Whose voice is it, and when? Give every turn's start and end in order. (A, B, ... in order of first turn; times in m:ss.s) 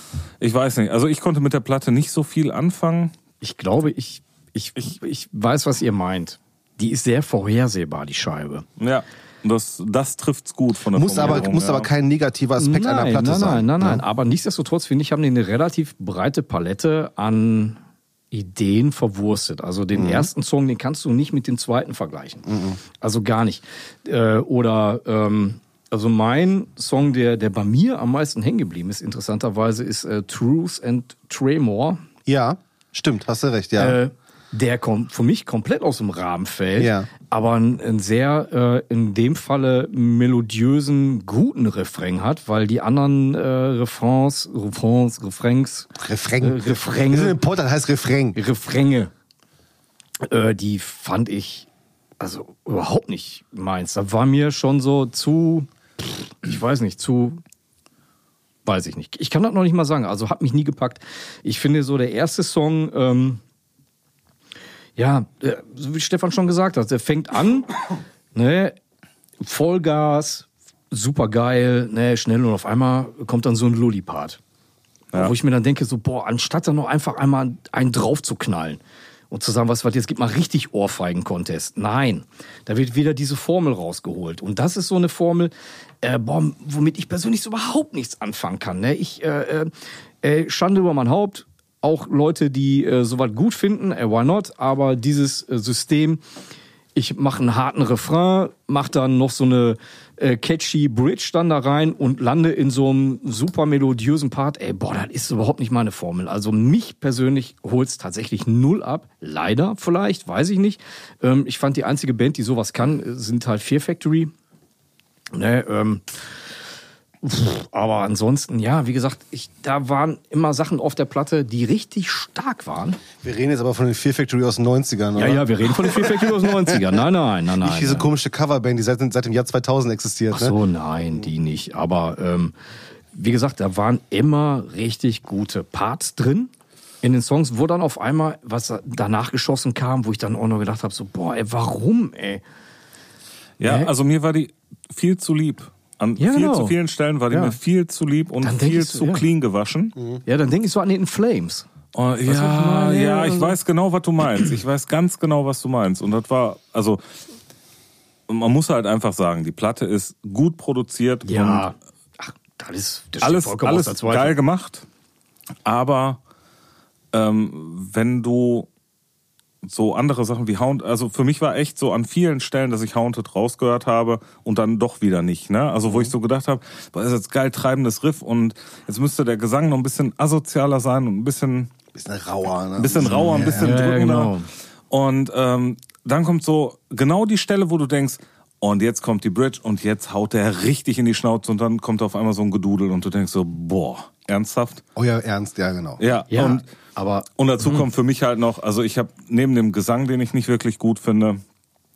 0:00.4-0:03.1 A
0:03.4-0:08.6 B
0:08.8-0:11.9 A
0:10.9-0:14.0 C
0:12.6-0:17.8 B
0:18.3-0:22.5 B
0:19.9-0:20.3 C
0:22.4-0:22.8 C
0:23.0-0:32.0 B
0:32.2-0:34.0 C
0:33.8-0:47.4 B
0:36.8-0:37.1 C
0:46.0-0:48.4 C
0:48.3-0:49.1 B
0:50.2-0:51.7 B
0:52.2-0:57.4 B
0:58.6-1:03.4 B
1:05.0-1:07.7 B
1:08.3-1:08.8 B
1:09.4-1:14.4 B
1:15.1-1:36.2 B
1:36.9-1:54.3 B
1:55.3-1:56.0 B
1:57.2-2:03.0 B
2:03.2-2:07.0 C
2:05.1-2:08.1 B
2:07.6-2:10.6 C
2:10.3-2:12.5 B
2:13.1-2:16.5 B
2:17.0-2:22.4 B
2:23.6-2:30.0 A
2:23.6-2:23.9 B
2:26.2-2:26.8 B
2:27.3-2:27.6 B
2:28.4-2:29.2 B
2:30.0-2:30.2 C
2:30.2-2:31.6 B
2:31.9-2:37.0 A
2:32.2-2:33.6 B
2:38.3-2:41.7 A
2:41.2-2:44.4 B
2:43.2-2:44.8 A
2:45.6-2:46.2 A
2:47.1-2:48.7 A
2:49.6-3:01.7 A
2:55.8-2:56.1 C
3:01.9-3:03.8 C
3:02.8-3:04.3 A
3:03.0-3:04.5 B
3:04.9-3:14.8 A
3:15.0-3:16.0 C
3:16.0-3:16.7 A
3:16.3-3:17.8 B
3:17.4-3:21.4 A